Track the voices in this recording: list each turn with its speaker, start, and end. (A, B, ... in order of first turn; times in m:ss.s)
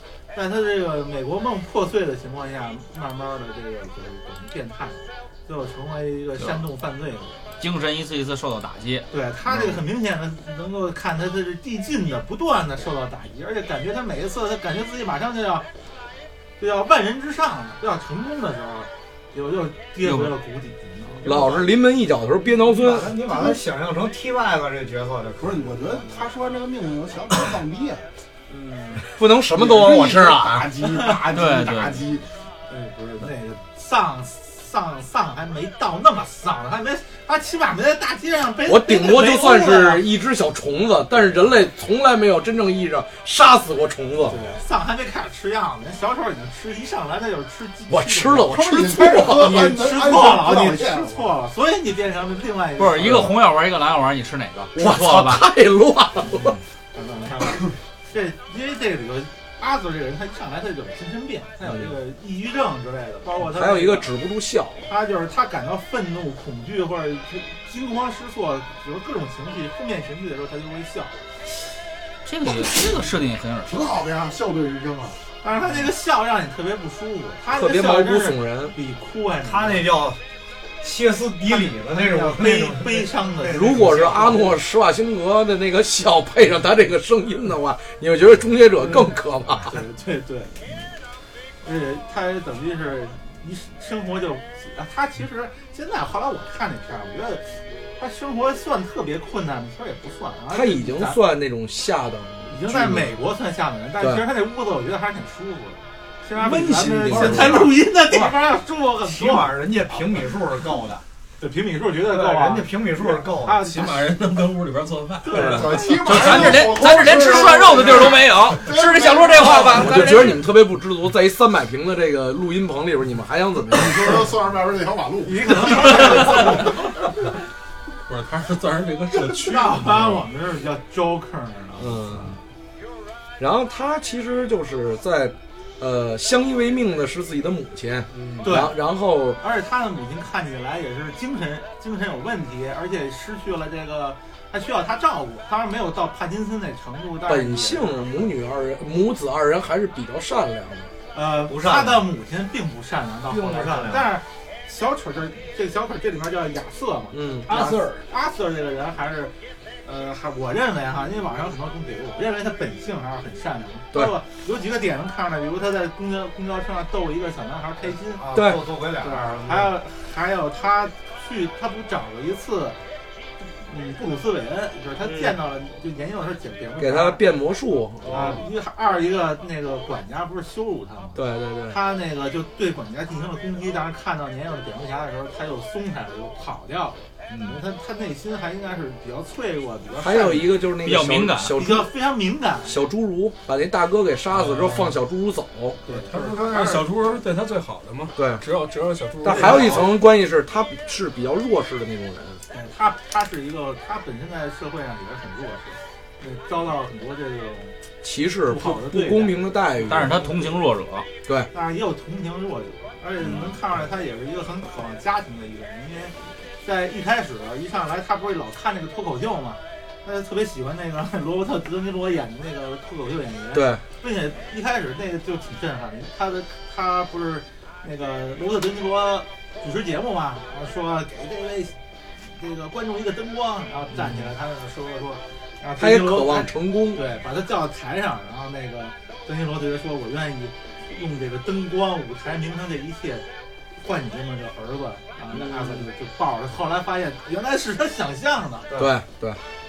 0:00.3-0:07.4 A
0:07.6-0:09.1 B
0:09.1-0:15.7 A
0:16.6-0:21.7 A
0:20.0-0:20.3 B
0:21.2-0:23.2 C
0:22.4-0:26.1 D
0:25.4-0:28.0 E
0:28.5-0:29.0 A
0:29.1-0:30.7 C
0:29.6-0:32.3 E
0:31.3-0:32.0 B
0:32.7-0:40.0 A
0:38.6-0:44.4 C
0:44.2-0:53.4 A
0:47.9-0:49.8 C
0:48.5-0:51.3 E
0:52.8-0:55.5 B
0:53.0-0:53.3 C
0:54.8-0:56.6 C
0:56.3-1:04.1 A
1:03.4-1:04.9 C
1:04.9-1:11.2 A
1:12.2-1:14.1 B
1:13.7-1:15.2 E
1:15.4-1:19.9 A
1:17.5-1:18.8 C
1:19.4-1:20.2 D
1:20.8-1:24.4 D
1:21.5-1:24.6 A
1:23.4-1:29.8 C
1:29.7-1:30.7 A
1:31.6-1:41.2 A
1:40.5-1:43.2 C
1:42.5-1:49.6 A
1:44.0-1:44.2 C
1:46.4-1:47.8 C
1:47.1-1:47.6 D
1:49.0-1:51.0 D
1:51.4-1:54.1 A
1:52.0-1:53.6 D
1:53.6-1:56.5 F
1:55.3-1:56.0 A
1:55.3-1:55.8 C
1:55.4-1:59.9 E
1:56.0-2:00.5 B
1:59.7-2:04.4 C
2:03.7-2:06.4 E
2:05.2-2:06.9 A
2:06.0-2:06.7 F
2:08.1-2:10.3 F
2:09.2-2:12.4 A
2:11.8-2:12.3 C
2:13.4-2:19.4 C
2:18.1-2:18.5 D
2:18.4-2:18.8 A
2:19.4-2:28.3 A
2:27.3-2:30.9 C
2:31.1-2:39.3 A
2:31.5-2:32.1 D
2:33.3-2:34.1 D
2:37.1-2:38.0 C
2:39.8-2:48.3 A
2:48.1-2:49.8 D
2:48.3-2:48.6 C
2:49.0-2:52.8 A
2:53.4-2:57.2 A
2:55.0-2:55.4 C
2:56.8-2:58.4 C
2:58.0-2:58.4 D
2:58.1-3:10.5 A
3:01.2-3:01.8 C
3:10.0-3:11.9 C
3:10.8-3:11.6 B
3:11.5-3:12.8 A
3:12.6-3:15.8 C
3:14.4-3:14.9 F
3:15.8-3:16.9 A
3:15.9-3:19.9 F
3:18.2-3:18.5 C
3:19.2-3:22.4 C
3:19.3-3:19.8 A
3:22.5-3:27.8 A
3:28.0-3:30.4 C
3:28.5-3:29.5 A
3:29.8-3:31.1 B
3:31.5-4:03.2 A
3:43.5-3:43.8 C
3:55.8-3:57.0 C
4:03.8-4:08.8 A
4:05.3-4:05.9 C
4:08.8-4:09.4 C